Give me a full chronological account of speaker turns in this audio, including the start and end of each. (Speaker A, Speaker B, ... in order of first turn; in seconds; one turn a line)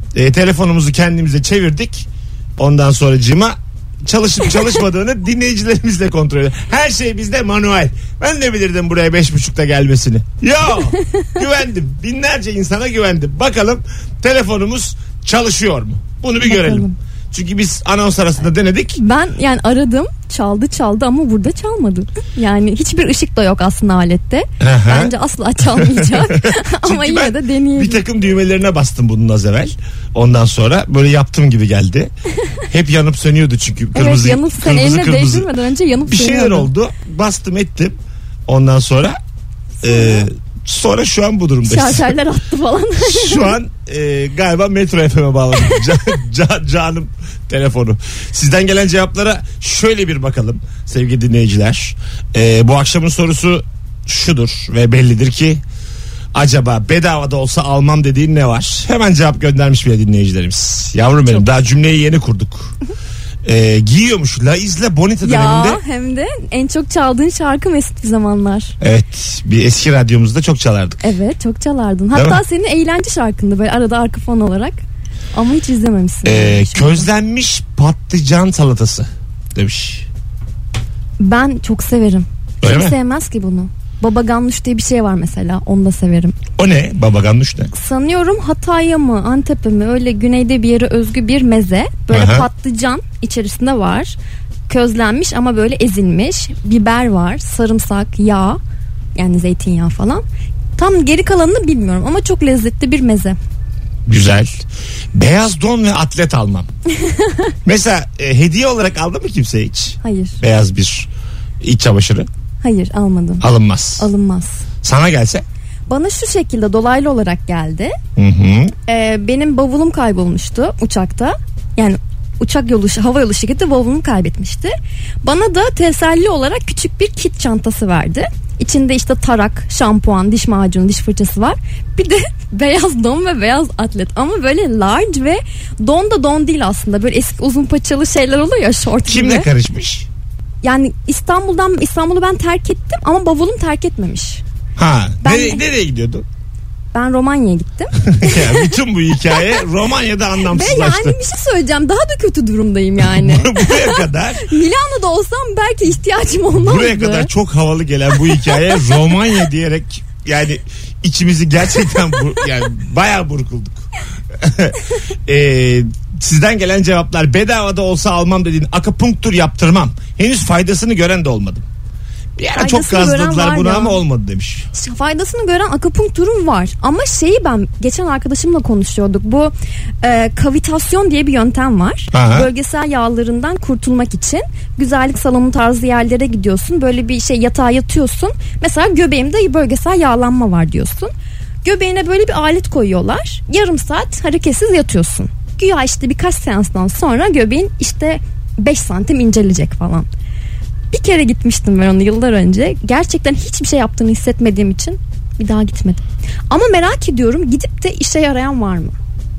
Speaker A: 0.1-19.0
Speaker B: 16.4-16.9
Speaker B: 19.0-28.0
Speaker A: 24.6-25.1
Speaker A: 25.6-32.1
Speaker A: 32.7-35.5
Speaker B: 34.0-36.7
Speaker A: 36.1-39.2
Speaker A: 39.8-42.1
Speaker B: 39.8-40.3
Speaker B: 41.6-43.6
Speaker A: 43.0-55.6
Speaker A: 56.3-62.8
Speaker A: 63.4-65.8
Speaker B: 65.2-68.8
Speaker A: 68.8-71.0
Speaker B: 71.0-74.8
Speaker A: 72.1-72.4
Speaker B: 75.3-77.1
Speaker A: 76.2-80.1
Speaker B: 81.2-86.4
Speaker A: 82.6-83.0
Speaker A: 86.6-87.7
Speaker B: 87.7-94.2
Speaker A: 92.1-92.5
Speaker B: 94.7-98.6
Speaker B: 99.2-100.2
Speaker B: 100.8-103.4
Speaker A: 104.1-106.7
Speaker B: 107.0-107.5
Speaker A: 107.7-111.1
Speaker B: 110.0-110.4
Speaker A: 111.6-112.3
Speaker B: 112.6-113.5
Speaker A: 113.4-114.1
Speaker B: 114.0-114.7
Speaker A: 114.8-115.5
Speaker B: 115.9-118.0
Speaker A: 118.2-118.7
Speaker B: 118.9-139.5
Speaker A: 139.1-140.1
Speaker B: 140.6-144.4
Speaker A: 144.8-146.3
Speaker B: 145.2-145.6
Speaker B: 146.9-148.7
Speaker A: 148.0-151.2
Speaker B: 150.5-157.3
Speaker A: 153.0-154.5
Speaker A: 156.6-171.7
Speaker B: 158.2-159.1
Speaker A: 172.4-174.7
Speaker B: 172.6-174.0
Speaker B: 174.7-191.1
Speaker A: 182.1-182.5
Speaker B: 191.6-200.1
Speaker B: 200.9-209.0